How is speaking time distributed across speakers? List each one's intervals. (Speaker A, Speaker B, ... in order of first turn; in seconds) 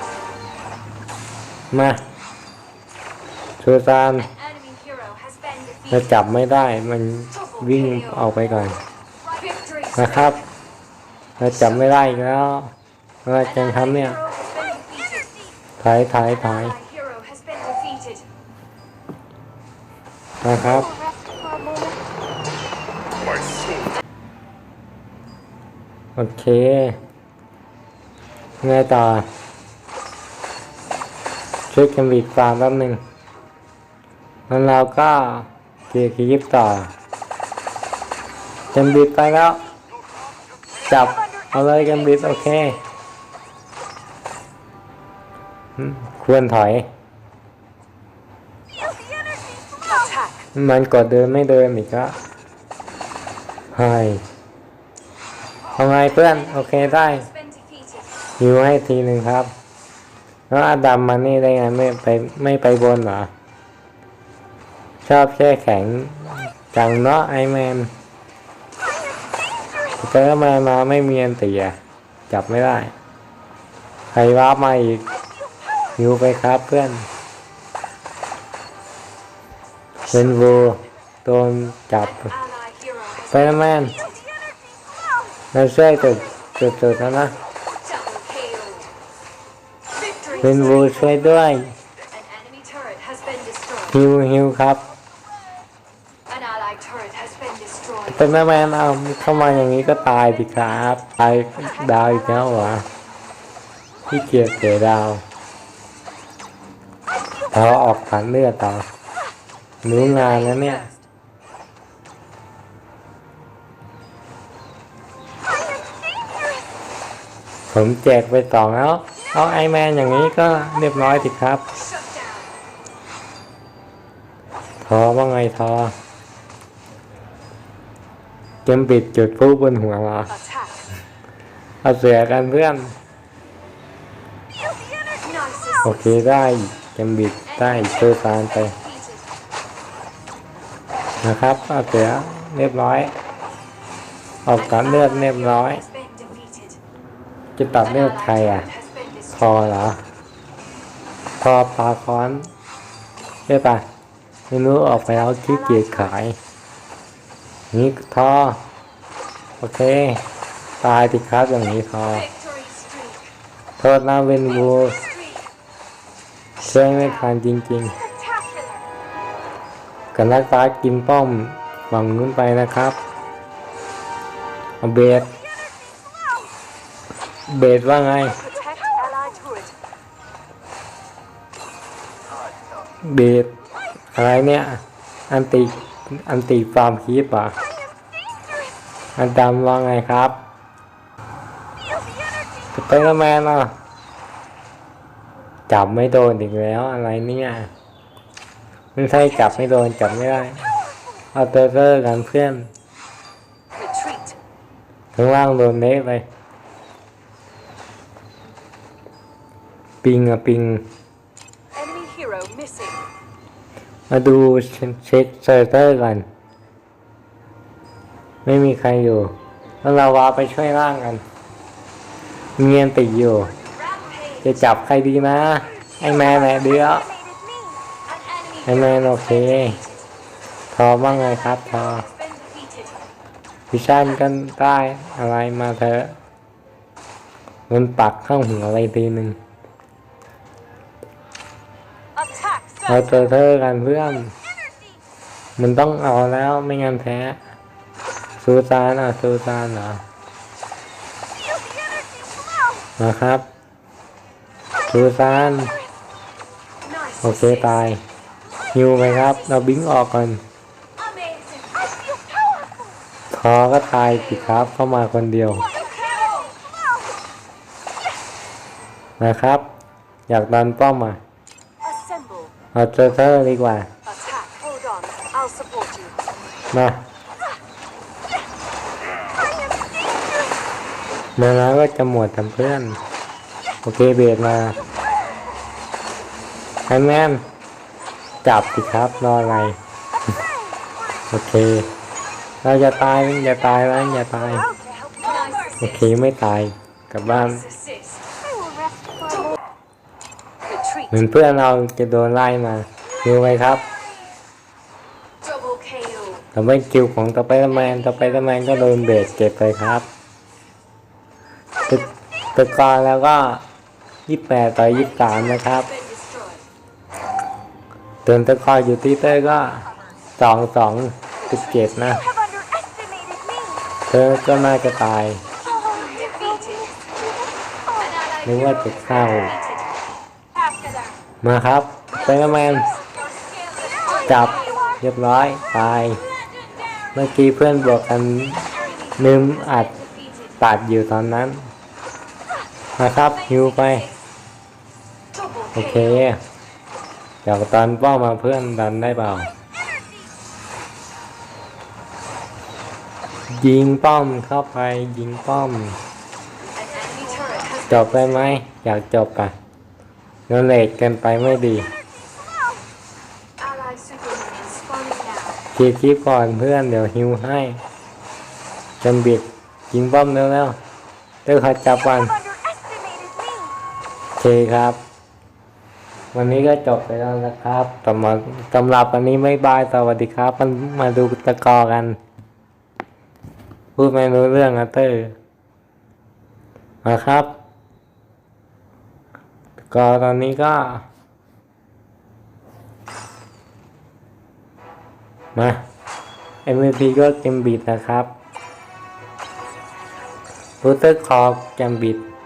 Speaker A: 1.7-2.0, 3.6-4.3, 5.9-8.8, 9.9-10.4, 11.4-12.7, 13.2-14.2, 15.8-16.8, 20.4-20.9, 26.1-27.0, 28.6-29.2, 31.7-33.0, 34.5-36.9, 38.7-39.6, 40.9-42.8, 45.8-46.9, 50.5-52.1, 53.7-54.2, 55.8-57.3, 58.4-59.5, 60.5-63.3, 65.0-67.9, 70.0-71.8, 72.3-72.9, 74.1-75.0, 76.0-77.1, 80.1-82.3, 83.3-83.9, 85.5-87.3, 90.4-91.7, 93.9-94.8, 98.1-102.8, 104.1-105.2, 107.5-108.8, 109.8-110.9, 117.7-121.6, 124.8-125.9, 128.7-130.3, 131.8-132.9, 135.8-138.7, 141.2-143.1, 144.4-145.8, 147.6-148.7, 149.3-150.0, 151.4-152.5, 153.5-153.8, 154.5-156.4, 157.7-158.6, 159.6-160.2, 160.8-162.3, 163.8-165.0, 166.6-168.0, 170.1-173.0, 174.8-175.3, 177.5-178.4, 183.1-183.5, 184.1-187.5, 189.2-190.4, 192.7-193.7, 195.7-197.7, 198.9-200.7, 201.3-202.7, 205.1-206.2, 210.0-210.8, 214.1-216.2, 218.4-221.2, 222.6-223.5, 224.4-227.1, 228.7-229.8, 230.7-232.1, 233.7-236.2, 237.7-239.4, 242.8-244.3, 245.6-247.4, 248.4-250.0, 253.0-253.4, 254.9-255.7, 257.2-258.0, 258.7-260.4, 263.3-265.7, 269.2-269.6, 270.3-271.2, 272.7-273.9, 276.7-277.0, 281.4-283.0, 283.8-284.8, 286.9-287.4, 288.4-289.8, 291.3-291.9, 292.6-294.7, 295.8-297.7, 301.1-303.8, 306.5-310.1, 311.9-313.6, 314.3-315.9, 318.2-319.8, 320.4-322.2, 324.1-325.4, 328.4-329.6, 331.4-332.9, 334.2-336.2, 337.1-339.9, 340.6-341.7, 343.0-344.1, 345.7-346.4, 347.4-349.5, 353.5-356.0, 357.9-359.5, 360.5-361.9, 365.7-367.8, 369.0-370.8, 371.4-372.3, 374.4-375.0, 376.3-382.2, 383.9-385.3, 387.0-387.5, 389.9-391.0, 395.5-395.8, 396.6-398.3, 400.8-402.2
Speaker B: 4.7-5.8, 14.6-15.3, 16.8-18.2, 87.9-88.8, 92.2-93.6, 96.4-97.9, 135.5-135.8, 145.9-146.8, 148.7-149.0, 162.4-163.2, 168.3-168.6, 178.8-179.5, 204.1-204.3, 211.8-212.9, 266.0-266.5, 274.4-275.9, 295.2-295.8, 305.5-306.3, 323.0-323.6, 325.8-326.9, 357.0-357.7, 363.6-365.5, 373.0-373.4